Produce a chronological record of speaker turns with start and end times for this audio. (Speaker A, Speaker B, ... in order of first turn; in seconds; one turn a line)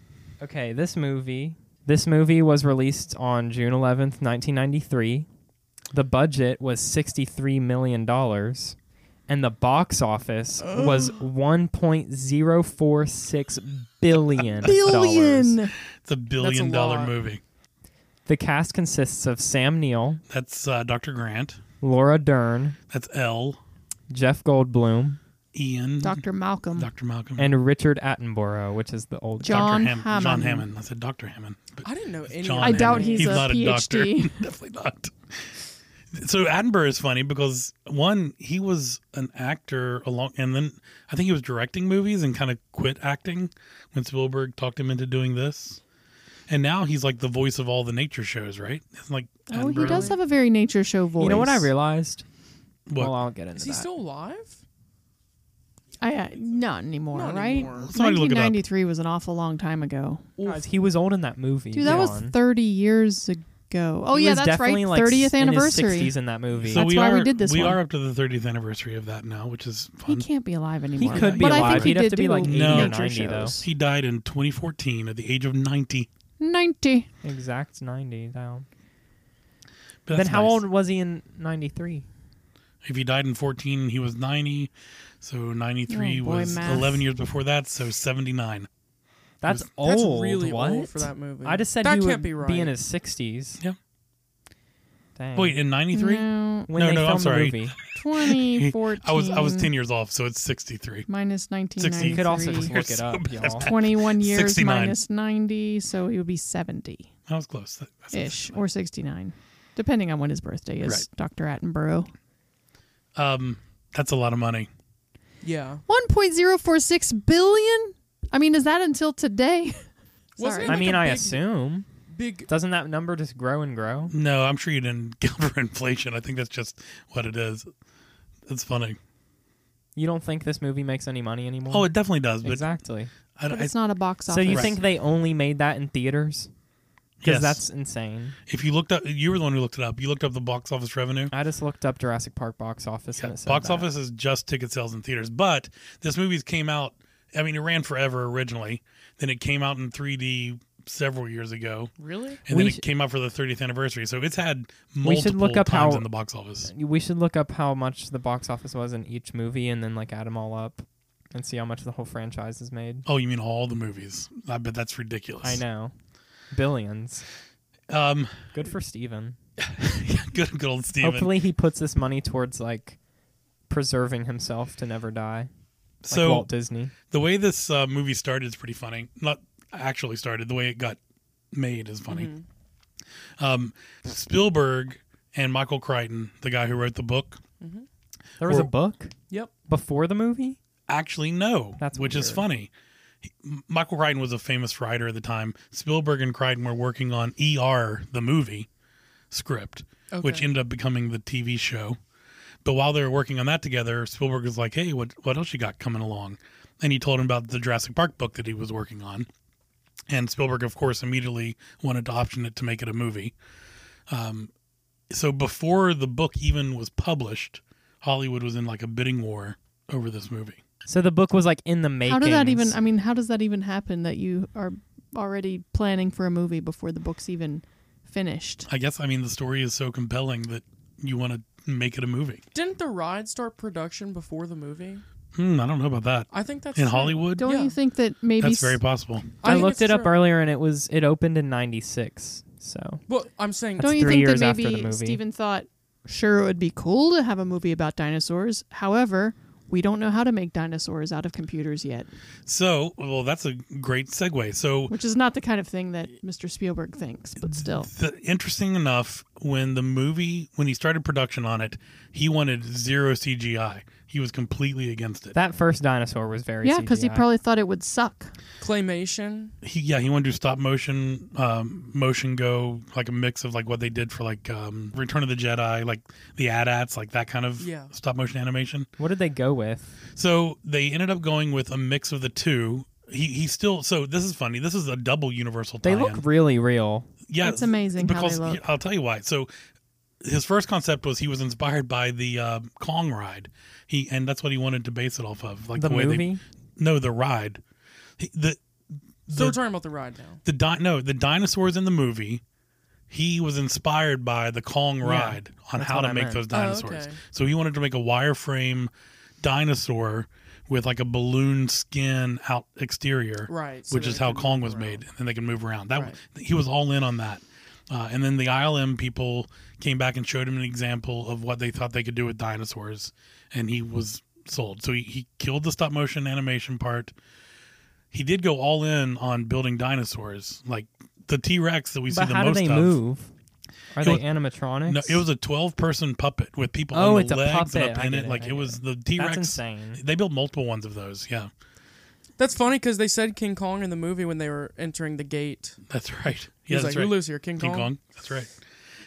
Speaker A: 0.4-5.3
Speaker A: 5.9-8.8
Speaker A: 9.3-15.6
Speaker B: 10.6-11.2
Speaker C: 14.4-14.8
Speaker D: 14.6-15.8
Speaker C: 16.0-17.4
Speaker B: 16.4-17.1
Speaker A: 18.3-20.2
Speaker C: 20.3-21.6
Speaker A: 21.8-22.8
Speaker C: 22.9-23.6
Speaker A: 24.1-25.2
Speaker C: 25.5-26.2
Speaker D: 26.0-26.9
Speaker C: 26.8-27.5
Speaker A: 27.4-29.7
Speaker D: 29.4-30.6
Speaker C: 29.4-35.6
Speaker B: 31.8-33.5
Speaker D: 32.6-34.4
Speaker C: 36.1-45.8
Speaker C: 46.5-50.1
Speaker D: 49.5-51.7
Speaker B: 49.8-50.2
Speaker A: 51.2-52.2
Speaker C: 52.9-53.1
Speaker A: 53.0-53.9
Speaker B: 53.5-54.6
Speaker D: 56.0-60.3
Speaker B: 57.1-57.9
Speaker C: 57.8-58.6
Speaker B: 60.4-60.6
Speaker A: 60.4-62.3
Speaker D: 61.7-66.2
Speaker A: 64.1-66.9
Speaker C: 66.6-70.2
Speaker D: 66.7-67.8
Speaker D: 70.1-73.7
Speaker A: 71.0-73.6
Speaker C: 71.0-73.0
Speaker C: 73.6-76.1
Speaker D: 76.4-77.1
Speaker A: 77.2-78.7
Speaker C: 80.1-80.6
Speaker A: 80.1-82.1
Speaker C: 82.8-84.7
Speaker C: 85.2-88.7
Speaker D: 85.9-87.1
Speaker A: 89.4-93.6
Speaker B: 89.8-92.7
Speaker A: 95.2-95.6
Speaker C: 95.3-101.1
Speaker D: 95.9-96.7
Speaker A: 96.7-97.8
Speaker D: 98.0-99.7
Speaker D: 101.1-102.7
Speaker C: 101.8-105.0
Speaker A: 102.0-103.7
Speaker D: 103.6-107.1
Speaker C: 107.3-108.6
Speaker D: 108.1-112.1
Speaker C: 113.2-114.7
Speaker B: 115.4-115.8
Speaker D: 115.9-119.8
Speaker D: 120.4-120.9
Speaker B: 120.4-121.4
Speaker A: 120.7-121.9
Speaker B: 122.1-122.5
Speaker A: 122.5-124.1
Speaker C: 124.1-127.7
Speaker C: 128.5-129.0
Speaker A: 129.9-133.1
Speaker C: 131.7-132.7
Speaker C: 133.4-133.8
Speaker D: 133.5-134.8
Speaker A: 134.3-136.5
Speaker C: 134.5-134.8
Speaker C: 137.2-137.6
Speaker A: 137.2-138.4
Speaker C: 138.5-141.3
Speaker A: 141.3-143.9
Speaker C: 143.2-151.9
Speaker B: 152.0-152.4
Speaker C: 152.4-156.7
Speaker A: 152.5-152.8
Speaker A: 155.0-156.1
Speaker A: 156.6-163.1
Speaker C: 163.1-165.6
Speaker A: 165.4-165.9
Speaker A: 166.5-167.2
Speaker C: 167.9-168.7
Speaker A: 168.6-169.4
Speaker C: 169.6-171.3
Speaker A: 171.0-173.0
Speaker A: 173.7-175.5
Speaker C: 176.0-176.5
Speaker A: 176.1-176.9
Speaker C: 177.1-181.0
Speaker C: 181.5-182.3
Speaker B: 182.1-182.4
Speaker C: 183.4-187.4
Speaker B: 187.6-187.8
Speaker A: 188.4-189.1
Speaker C: 188.4-188.7
Speaker A: 189.7-190.6
Speaker C: 190.9-192.7
Speaker A: 191.8-192.4
Speaker C: 193.3-198.7
Speaker C: 199.3-202.0
Speaker B: 200.1-200.5
Speaker C: 202.6-209.3
Speaker C: 210.1-213.3
Speaker C: 214.1-214.5
Speaker C: 215.1-220.6
Speaker A: 220.9-222.8
Speaker D: 222.1-228.7
Speaker C: 228.7-232.4
Speaker B: 232.5-235.0
Speaker C: 235.3-237.5
Speaker B: 236.3-237.8
Speaker D: 237.4-238.8
Speaker C: 238.4-239.4
Speaker B: 239.4-240.2
Speaker A: 239.4-243.0
Speaker B: 243.1-244.2
Speaker A: 243.8-245.2
Speaker D: 243.8-252.1
Speaker C: 252.4-254.9
Speaker D: 254.9-257.9
Speaker C: 257.4-265.4
Speaker A: 265.3-267.2
Speaker D: 266.6-268.3
Speaker B: 268.6-269.5
Speaker C: 269.6-278.9
Speaker B: 277.6-277.9
Speaker A: 279.0-280.0
Speaker C: 280.1-286.2
Speaker A: 285.8-287.1
Speaker C: 287.3-289.5
Speaker D: 287.4-288.6
Speaker C: 290.2-297.6
Speaker A: 295.8-296.4
Speaker C: 298.2-298.6
Speaker C: 299.3-299.6
Speaker B: 299.3-300.4
Speaker C: 300.4-302.4
Speaker C: 303.1-327.1
Speaker A: 305.0-306.4
Speaker B: 306.5-307.2
Speaker B: 313.5-315.1
Speaker C: 328.1-333.0
Speaker A: 332.1-333.3
Speaker A: 333.9-335.2
Speaker C: 334.9-341.5
Speaker A: 336.9-340.0
Speaker B: 342.4-345.8
Speaker C: 345.9-348.5
Speaker B: 346.7-347.9